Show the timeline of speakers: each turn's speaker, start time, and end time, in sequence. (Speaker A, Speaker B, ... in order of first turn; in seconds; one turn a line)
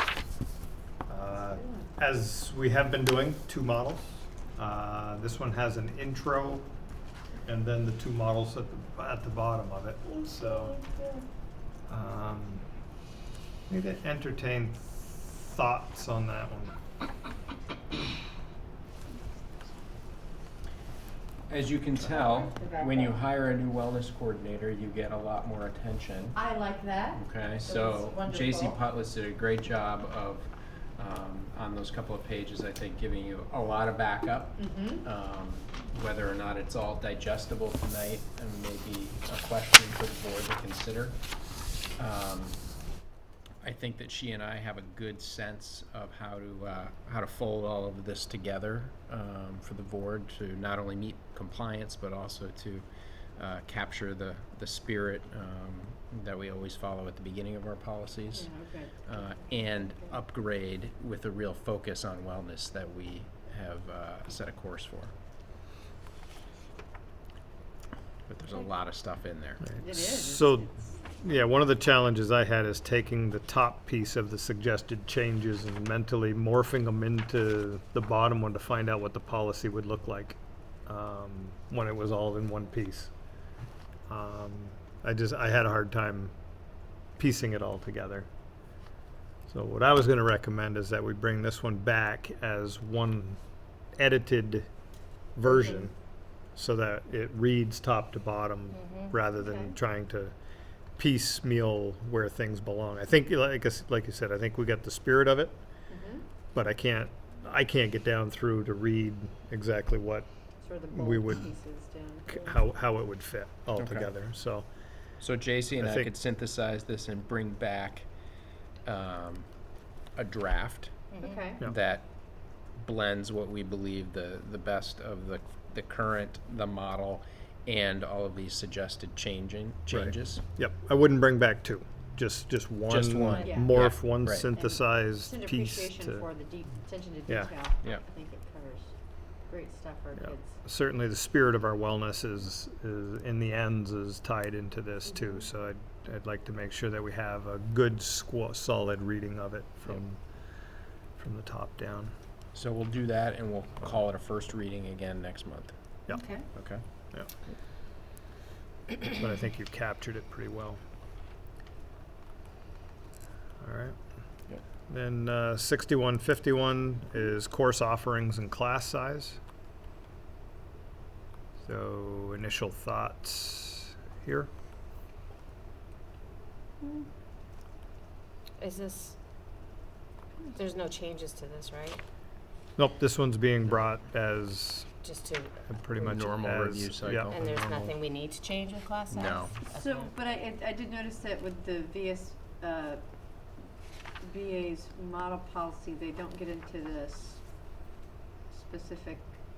Speaker A: 1.1-6.7
Speaker B: 1.3-1.9
Speaker A: 7.5-10.8
Speaker B: 10.2-11.2
Speaker A: 11.9-12.6
Speaker A: 13.7-14.8
Speaker A: 15.4-16.8
Speaker C: 21.5-26.4
Speaker B: 22.2-23.1
Speaker B: 26.3-28.8
Speaker C: 27.1-41.2
Speaker B: 34.6-35.0
Speaker C: 42.0-42.6
Speaker C: 43.6-52.9
Speaker C: 53.4-58.5
Speaker B: 58.3-60.2
Speaker C: 59.0-65.1
Speaker C: 68.3-69.7
Speaker A: 69.7-70.7
Speaker B: 69.8-70.9
Speaker A: 71.2-83.1
Speaker A: 84.1-86.3
Speaker A: 87.2-88.3
Speaker A: 89.5-93.4
Speaker A: 94.0-94.7
Speaker A: 95.4-95.9
Speaker B: 95.5-95.9
Speaker A: 96.6-100.3
Speaker D: 98.7-99.2
Speaker B: 99.4-99.8
Speaker A: 101.0-105.5
Speaker B: 105.9-106.2
Speaker A: 106.5-110.3
Speaker B: 110.6-112.5
Speaker A: 110.9-111.5
Speaker A: 112.3-114.7
Speaker C: 113.8-114.1
Speaker C: 115.2-118.1
Speaker A: 115.8-116.1
Speaker C: 118.8-119.5
Speaker C: 120.2-121.0
Speaker D: 121.1-121.5
Speaker B: 121.2-121.6
Speaker C: 121.6-122.1
Speaker C: 122.8-130.4
Speaker A: 129.9-136.2
Speaker C: 132.9-134.5
Speaker B: 133.3-138.9
Speaker A: 137.3-137.5
Speaker B: 139.5-140.5
Speaker A: 140.2-150.2
Speaker A: 151.2-152.1
Speaker C: 152.6-155.8
Speaker B: 156.1-156.5
Speaker C: 156.5-156.8
Speaker A: 159.1-160.8
Speaker A: 163.6-164.0
Speaker A: 164.9-169.4
Speaker A: 171.6-174.5
Speaker B: 176.8-177.1
Speaker D: 178.6-179.2
Speaker D: 180.5-182.0
Speaker A: 182.8-184.9
Speaker D: 185.0-186.2
Speaker A: 185.7-187.9
Speaker C: 186.0-187.6
Speaker D: 187.3-190.1
Speaker C: 189.1-189.5
Speaker B: 189.7-193.0
Speaker B: 194.2-197.4
Speaker B: 198.5-199.2